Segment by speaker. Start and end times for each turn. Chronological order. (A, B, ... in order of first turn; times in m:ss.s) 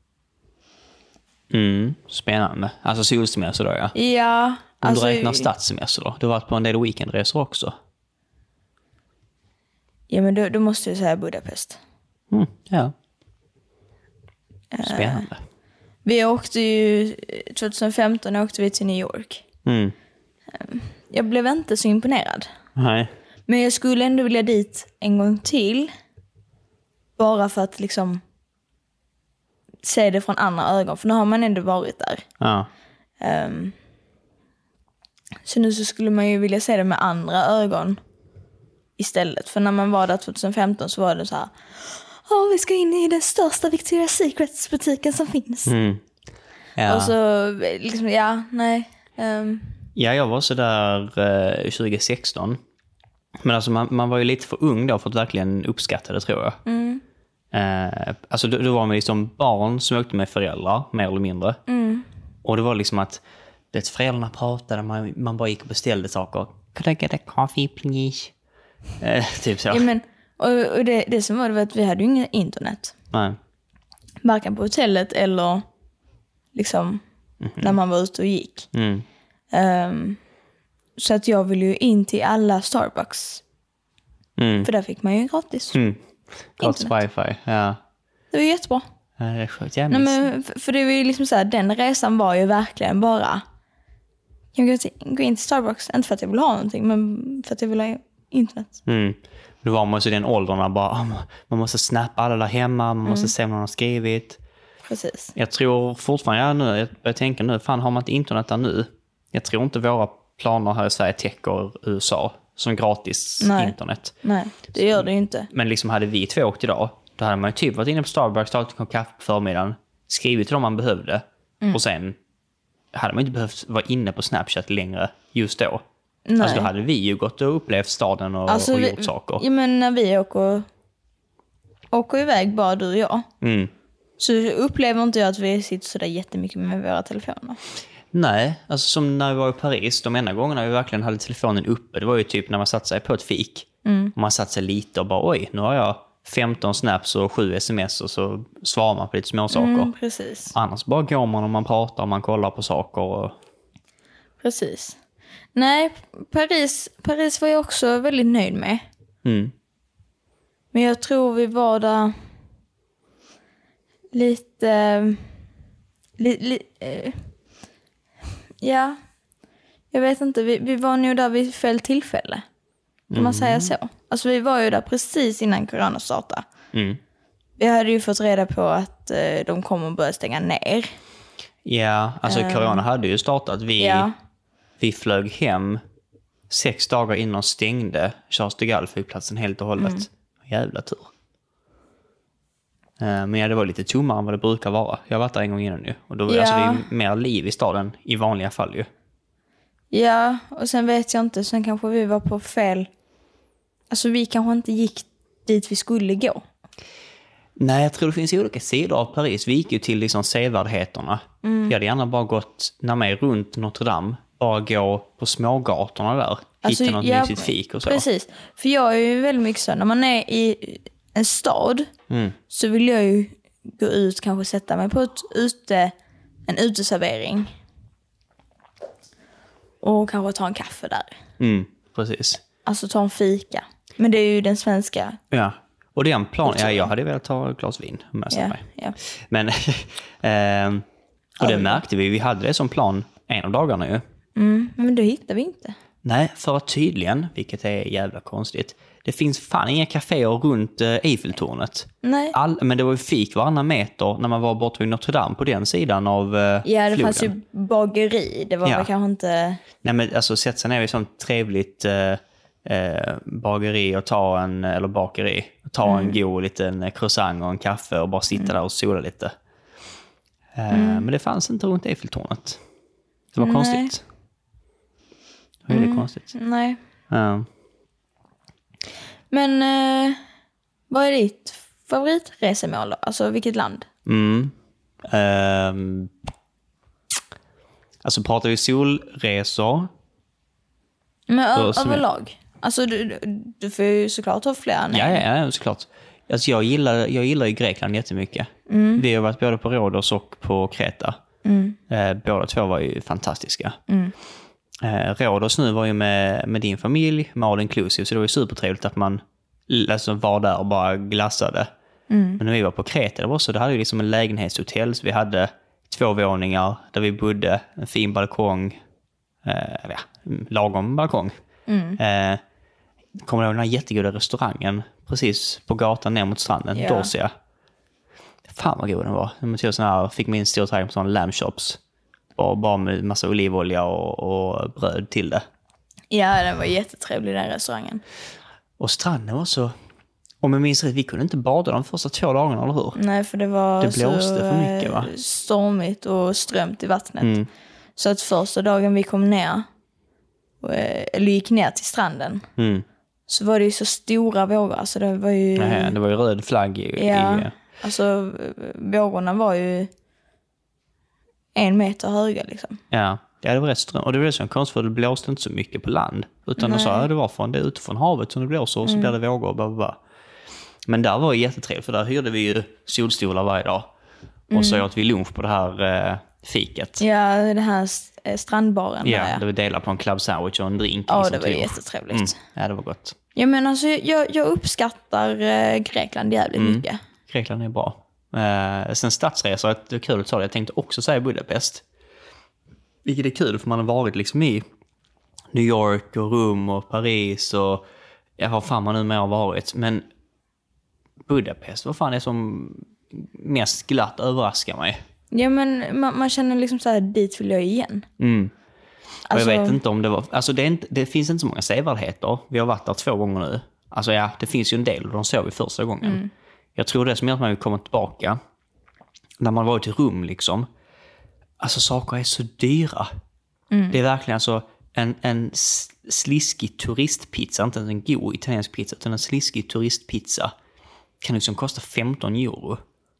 0:01.5-0:03.9 A
0:03.9-0:05.5 B
0:04.8-0:07.7 A
0:10.1-0:11.8 B
0:12.3-0:12.9 A
0:14.7-0:15.3 B
0:14.8-0:15.4 A
0:16.0-0:19.4 B
0:19.6-0:19.9 A
0:20.5-0:22.5 B
0:22.8-0:23.1 A
0:23.5-0:25.9 B
0:27.2-0:28.2 B
0:29.8-0:32.2 B
0:32.4-0:32.7 A
0:33.2-0:33.7 B
0:35.4-0:38.0 B
0:39.0-0:45.7 B
0:45.6-0:46.0 A
0:46.8-0:47.1 A
0:46.8-0:49.7 B
0:50.0-0:52.6 A
0:53.4-0:56.6 A
0:56.6-0:57.0 B
0:57.5-1:01.6 A
1:01.7-1:02.0 B
1:02.4-1:08.3 A
1:09.0-1:09.9 A
1:09.7-1:12.9 B
1:13.1-1:13.4 A
1:14.2-1:15.6 B
1:16.5-1:17.0 B
1:17.4-1:17.8 A
1:17.6-1:18.7 B
1:18.7-1:19.0 A
1:19.5-1:20.2 B
1:21.0-1:23.4 B
1:24.4-1:24.7 A
1:24.6-1:25.8 B
1:25.7-1:26.0 A
1:26.6-1:27.8 A
1:26.6-1:27.0 B
1:28.3-1:28.8 B
1:29.2-1:30.2 A
1:29.9-1:33.4 B
1:34.5-1:38.8 B
1:38.8-1:44.4 A
1:43.0-1:43.3 B
1:44.9-1:45.3 B
1:45.3-1:54.1 A
1:53.4-1:55.5 B
1:54.8-2:02.2 A
2:02.9-2:05.8 A
2:06.3-2:06.7 B
2:06.4-2:09.4 A
2:08.5-2:10.7 B
2:11.9-2:13.3 B
2:13.4-2:13.7 A
2:14.2-2:17.6 B
2:18.1-2:29.9 A
2:23.8-2:24.1 B
2:29.5-2:30.5 B
2:30.5-2:33.4 A
2:34.4-2:35.0 B
2:35.5-2:38.9 B
2:39.2-2:39.5 A
2:40.7-2:42.1 B
2:44.1-2:45.2 B
2:46.2-2:47.2 B
2:48.6-2:49.0 B
2:49.9-2:52.4 B
2:53.1-2:53.7 A
2:53.1-2:56.4 B
2:56.7-2:57.0 A
2:57.6-3:00.9 B
3:01.6-3:04.1 A
3:02.2-3:02.8 B
3:03.8-3:04.1 B
3:04.8-3:05.8 A
3:06.5-3:11.1 A
3:09.8-3:10.0 B
3:13.0-3:18.9 A
3:16.3-3:16.9 B
3:19.9-3:22.9 B
3:23.9-3:26.4 B
3:27.6-3:38.0 A
3:31.4-3:31.7 B
3:36.6-3:41.9 B
3:42.1-3:42.4 A
3:42.5-3:45.9 B
3:46.5-3:47.5 B
3:49.8-3:51.2 B
3:51.4-3:52.4 A
3:52.6-3:55.2 B
3:55.3-4:00.8 A
3:56.4-3:56.9 B
3:58.3-3:59.0 B
4:01.4-4:04.0 A
4:01.4-4:01.8 B
4:04.4-4:05.8 B
4:06.0-4:17.3 A
4:12.0-4:12.4 B
4:16.6-4:19.6 B
4:19.8-4:29.3 A
4:25.8-4:26.2 B
4:30.6-4:32.6 A
4:30.7-4:31.0 B
4:33.3-4:34.0 A
4:33.4-4:33.9 B
4:35.7-4:36.3 A
4:35.7-4:36.8 B
4:37.1-4:37.5 A
4:39.3-4:40.2 B
4:40.9-4:43.9 B
4:44.0-4:44.5 A
4:45.1-4:46.1 A
4:48.0-4:49.9 A
4:51.3-4:55.2 B
4:51.6-4:52.0 A
4:54.9-5:01.2 A
4:58.7-4:59.0 B
5:01.4-5:01.8 B
5:01.9-5:03.8 A
5:03.9-5:04.1 B
5:04.8-5:11.7 A
5:12.1-5:12.4 B
5:12.4-5:18.8 A
5:19.4-5:21.3 A
5:21.7-5:22.0 B
5:22.0-5:22.4 A
5:23.2-5:27.3 A
5:26.7-5:27.1 B
5:28.5-5:31.8 A
5:32.4-5:35.4 A
5:36.1-5:38.0 B
5:38.8-5:39.7 A
5:40.4-5:43.0 A
5:42.9-5:47.4 B
5:43.8-5:45.1 A
5:47.2-5:47.5 A
5:48.0-5:49.7 B
5:50.6-5:52.4 B
5:52.6-5:52.8 A
5:53.3-5:55.9 B
5:55.6-5:57.5 A
5:57.0-5:59.9 B
6:01.5-6:02.8 B
6:02.9-6:10.0 A
6:06.6-6:07.1 B
6:08.8-6:09.1 B
6:10.8-6:13.9 A
6:14.5-6:14.8 B
6:14.5-6:17.0 A
6:17.0-6:19.4 B
6:19.0-6:23.2 A
6:21.1-6:22.4 B
6:23.3-6:27.0 B
6:26.6-6:31.8 A
6:33.0-6:34.6 A
6:35.5-6:37.8 A
6:38.4-6:40.0 A
6:41.3-6:45.0 A
6:45.3-6:48.0 B
6:48.2-6:48.5 A
6:49.3-6:49.8 B
6:49.3-6:56.2 A
6:56.0-6:56.3 B
6:56.8-6:58.4 A
6:59.4-7:00.7 A
7:01.6-7:03.1 A
7:03.7-7:04.0 B
7:03.9-7:10.5 A
7:11.2-7:12.8 A